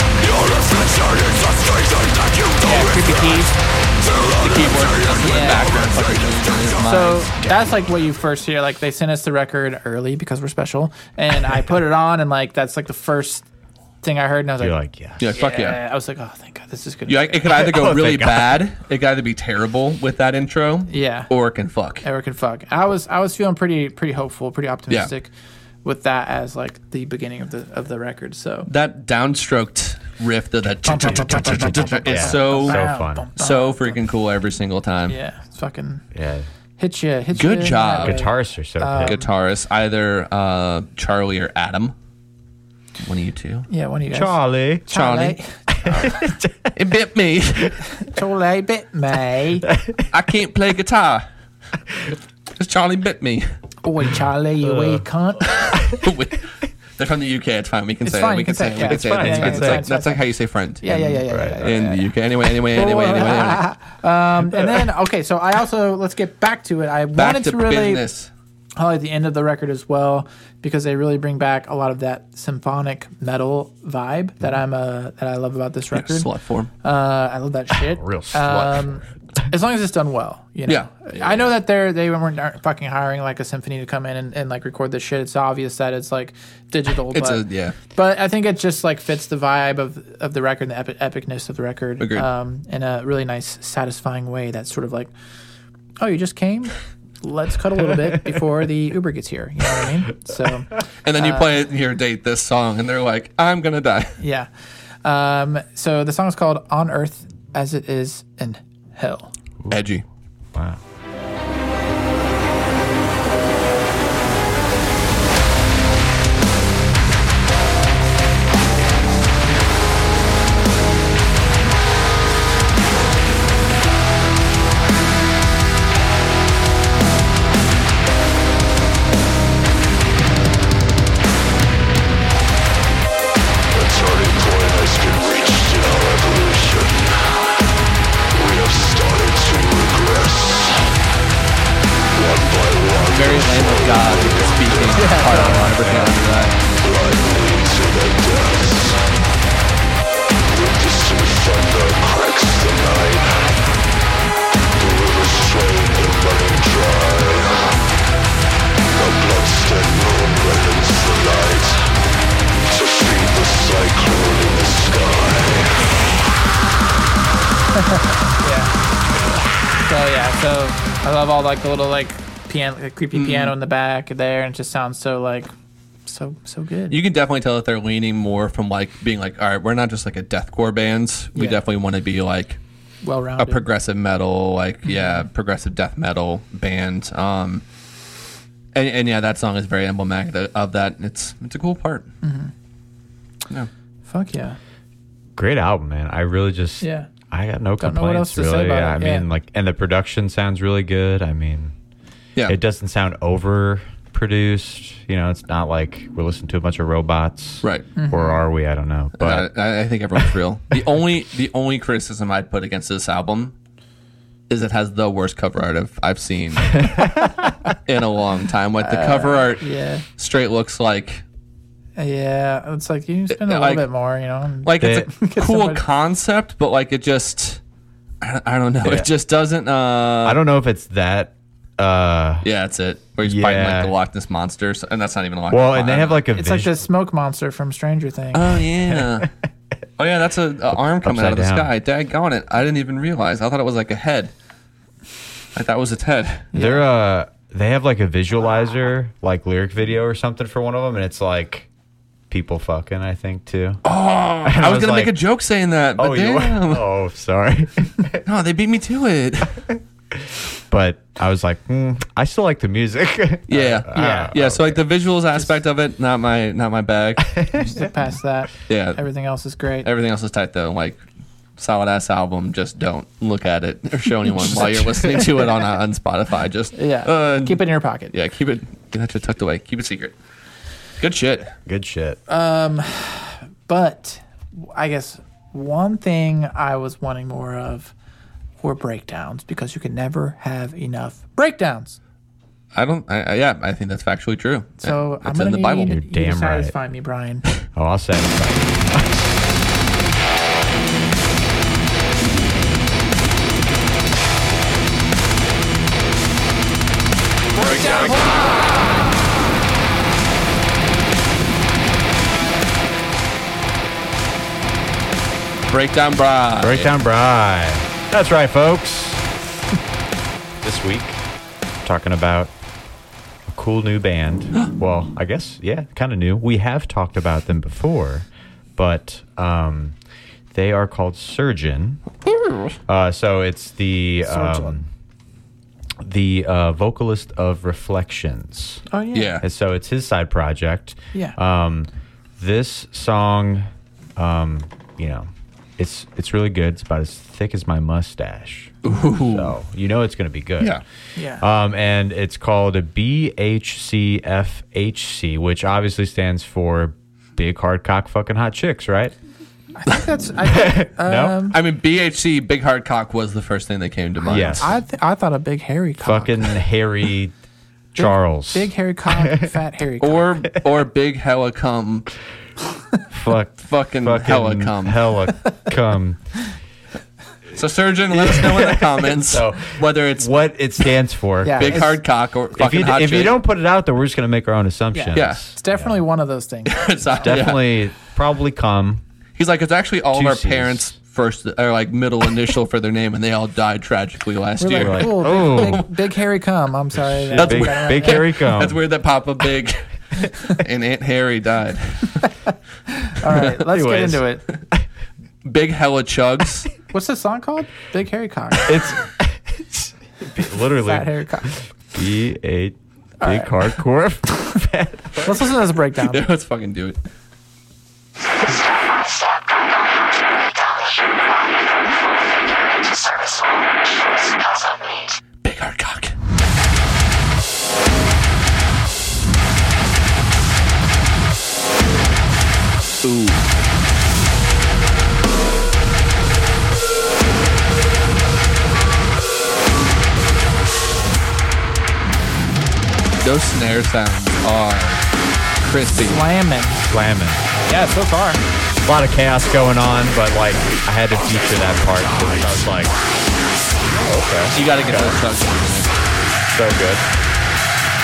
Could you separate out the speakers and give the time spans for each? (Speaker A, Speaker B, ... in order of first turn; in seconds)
Speaker A: 0.2-3.5, 4.0-6.9, 133.7-137.3, 138.3-140.9, 142.1-145.1, 146.8-149.0, 150.4-153.5, 154.8-157.8, 158.9-161.9, 162.7-165.9, 307.6-308.3
Speaker B: 2.6-3.5, 5.2-5.7, 6.8-13.4, 14.0-17.4, 20.9-21.3, 22.0-25.3, 25.8-28.7, 30.8-34.0, 35.1-36.0, 36.8-39.3, 43.7-46.3, 47.9-49.7, 53.8-55.8, 58.0-60.2, 60.8-62.1, 62.7-68.0, 68.8-76.3, 76.8-87.4, 87.9-95.1, 96.0-101.6, 104.2-104.5, 105.0-109.3, 144.9-145.7, 167.7-168.7, 169.8-175.5, 176.1-177.0, 181.3-181.6, 183.0-183.6, 184.8-185.3, 192.2-192.5, 194.1-194.6, 196.8-197.1, 197.8-199.2, 207.9-208.4, 218.8-220.1, 222.0-225.8, 236.3-238.6, 246.5-246.8, 263.9-264.3, 267.6-269.9, 276.7-278.1, 282.3-287.9, 288.6-292.0, 294.8-297.4, 307.6-308.3, 334.2-334.8, 338.9-339.4, 351.1-351.4, 359.8-361.6, 364.6-366.5, 367.9-370.4, 381.4-382.0, 384.9-387.3, 394.6-398.3, 402.2-404.4, 406.9-408.8, 410.7-411.5, 413.2-413.5, 415.2-416.3, 446.0-446.9, 447.6-448.4
Speaker C: 4.4-7.3, 15.2-15.8, 17.1-22.0, 28.7-35.2, 37.3-38.2, 39.0-41.9, 43.0-43.7, 44.9-46.1, 46.7-47.8, 50.1-51.2, 52.6-53.5, 55.7-63.6, 67.2-68.3, 75.9-76.7, 80.7-81.5, 87.1-87.8, 92.0-92.3, 101.0-104.2, 109.7-110.0, 143.0-146.6, 173.1-173.5, 176.9-182.6, 183.4-187.6, 188.7-192.1, 207.6-207.9, 209.2-213.5, 214.5-216.9, 217.9-219.6, 220.2-221.2, 223.3-223.9, 224.6-227.6, 228.2-230.4, 232.4-236.2, 238.3-239.3, 240.0-244.3, 245.6-246.5, 253.8-256.9, 258.2-259.6, 263.5-267.4, 268.7-269.0, 269.8-271.0, 271.6-277.6, 278.1-280.1, 281.0-281.5, 292.7-295.9, 315.7-316.9, 332.2-332.7, 339.1-339.4, 348.8-349.6, 361.5-364.7, 370.0-372.1, 373.6-375.0, 377.6-380.3, 381.6-383.4, 385.1-385.4, 386.7-387.7, 389.4-395.9, 397.4-399.8, 400.4-402.1, 405.4-406.7, 416.1-417.0, 425.4-426.1, 433.0-433.4, 443.2-445.0, 445.6-446.2, 454.5-455.9
Speaker D: 14.6-15.2, 17.5-18.6, 31.0-33.2, 36.1-36.5, 38.0-39.2, 44.1-44.9, 45.7-46.7, 49.7-50.1, 54.6-55.0, 55.7-56.0, 58.8-59.9, 61.2-61.7, 77.7-79.0, 110.5-110.8, 145.8-146.1, 195.3-201.7, 202.5-209.5, 216.8-217.5, 224.8-225.1, 228.8-229.1, 230.2-232.5, 233.2-233.9, 235.5-236.8, 238.9-239.2, 240.7-241.7, 246.5-251.7, 252.3-253.8, 254.4-255.2, 256.0-258.2, 260.7-264.8, 267.3-267.8, 281.6-282.2, 295.9-296.7, 297.7-299.3, 316.6-319.2, 320.6-321.2, 321.8-322.5, 323.5-329.9, 330.5-332.0, 332.9-334.9, 336.0-338.8, 339.4-350.8, 351.4-359.1, 360.4-361.4, 364.2-364.8, 366.0-367.3, 367.9-368.7, 373.1-376.2, 378.1-381.9, 382.6-386.0, 387.2-389.0, 390.1-390.9, 394.8-395.8, 396.9-398.8, 403.5-404.2, 408.6-415.4, 446.9-447.4, 448.8-452.9, 453.9-455.1, 456.5-457.1